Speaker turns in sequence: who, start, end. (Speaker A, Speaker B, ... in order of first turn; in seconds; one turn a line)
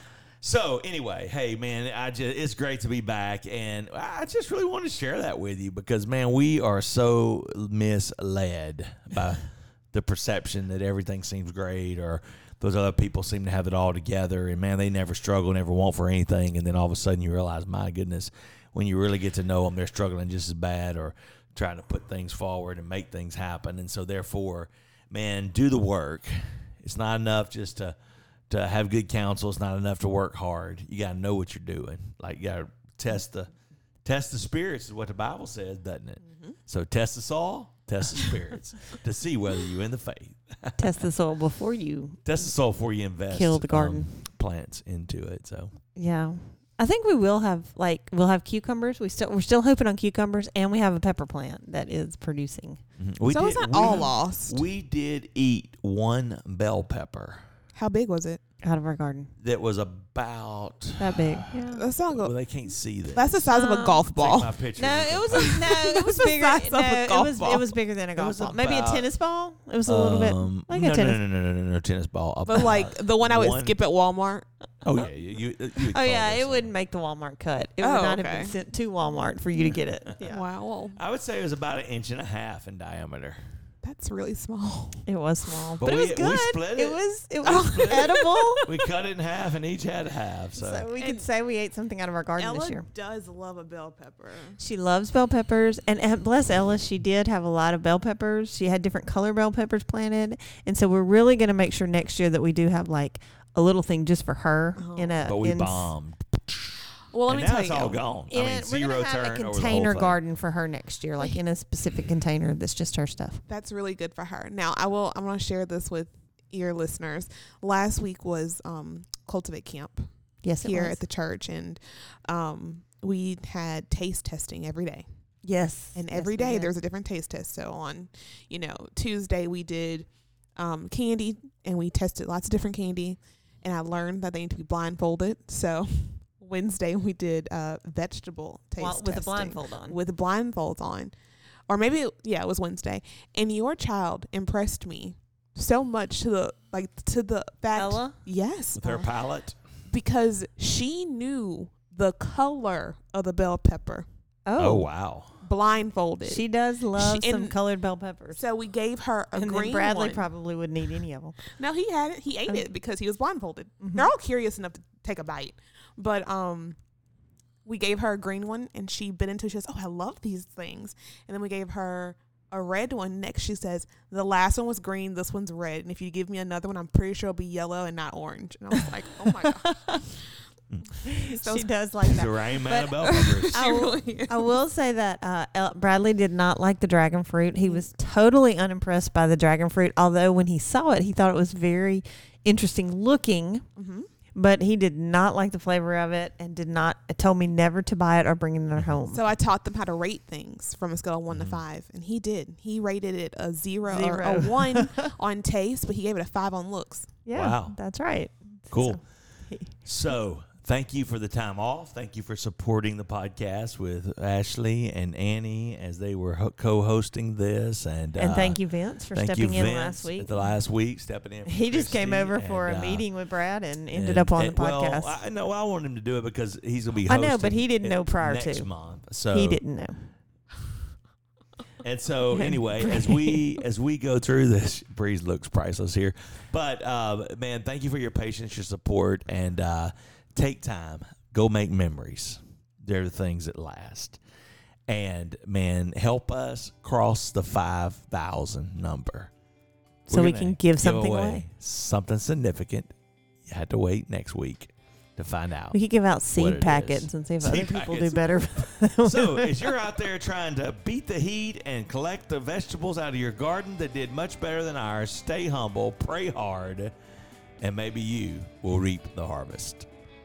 Speaker A: 0.4-27.9
Speaker A: 28.5-33.5
Speaker A: 34.0-41.0
Speaker B: 36.3-36.6
Speaker C: 40.8-42.4
Speaker A: 42.2-45.7
Speaker C: 43.3-44.1
Speaker C: 46.0-52.8
Speaker A: 53.0-57.4
Speaker B: 53.3-54.6
Speaker B: 57.8-58.4
Speaker C: 58.6-59.3
Speaker A: 59.4-61.5
Speaker C: 61.0-61.8
Speaker B: 61.7-62.3
Speaker A: 62.1-63.4
Speaker B: 63.1-64.6
Speaker C: 63.5-64.1
Speaker A: 64.1-65.5
Speaker C: 64.8-71.2
Speaker B: 65.3-67.7
Speaker A: 68.2-69.1
Speaker A: 69.9-73.8
Speaker B: 72.5-74.5
Speaker A: 74.8-76.7
Speaker C: 75.9-80.4
Speaker B: 77.8-78.6
Speaker B: 80.2-81.0
Speaker A: 81.0-83.4
Speaker B: 83.8-85.0
Speaker C: 85.1-88.7
Speaker A: 85.8-90.9
Speaker B: 87.5-88.7
Speaker C: 90.6-92.8
Speaker B: 91.0-91.3
Speaker B: 92.4-94.6
Speaker C: 94.6-105.9
Speaker B: 104.8-105.3
Speaker A: 105.2-110.2
Speaker B: 107.1-108.0
Speaker C: 108.3-113.4
Speaker B: 113.5-120.1
Speaker C: 120.4-121.0
Speaker B: 120.6-125.1
Speaker C: 125.5-126.7
Speaker B: 126.0-141.1
Speaker C: 138.8-140.0
Speaker B: 141.7-149.1
Speaker C: 147.8-148.2
Speaker A: 148.8-149.6
Speaker B: 149.9-154.1
Speaker C: 154.5-154.9
Speaker A: 154.6-155.3
Speaker B: 155.4-157.6
Speaker C: 156.3-158.4
Speaker B: 158.4-160.3
Speaker C: 159.3-161.4
Speaker B: 161.4-166.8
Speaker C: 163.8-164.1
Speaker B: 167.7-180.2
Speaker C: 178.8-180.0
Speaker B: 181.0-184.5
Speaker C: 181.0-193.6
Speaker A: 182.1-183.7
Speaker B: 193.8-194.1
Speaker C: 194.3-199.2
Speaker B: 199.1-207.2
Speaker A: 201.3-201.6
Speaker C: 203.9-205.1
Speaker C: 207.2-209.7
Speaker A: 207.3-207.8
Speaker A: 208.7-209.0
Speaker A: 209.8-218.6
Speaker C: 218.2-220.3
Speaker A: 219.1-223.1
Speaker C: 221.5-225.1
Speaker A: 223.9-229.6
Speaker C: 227.1-228.7
Speaker C: 229.3-230.1
Speaker A: 231.8-244.2
Speaker C: 232.3-233.4
Speaker A: 244.9-249.3
Speaker A: 250.1-252.9
Speaker C: 250.1-251.5
Speaker A: 253.4-255.8
Speaker C: 255.7-259.7
Speaker A: 256.3-266.9
Speaker A: 267.6-269.9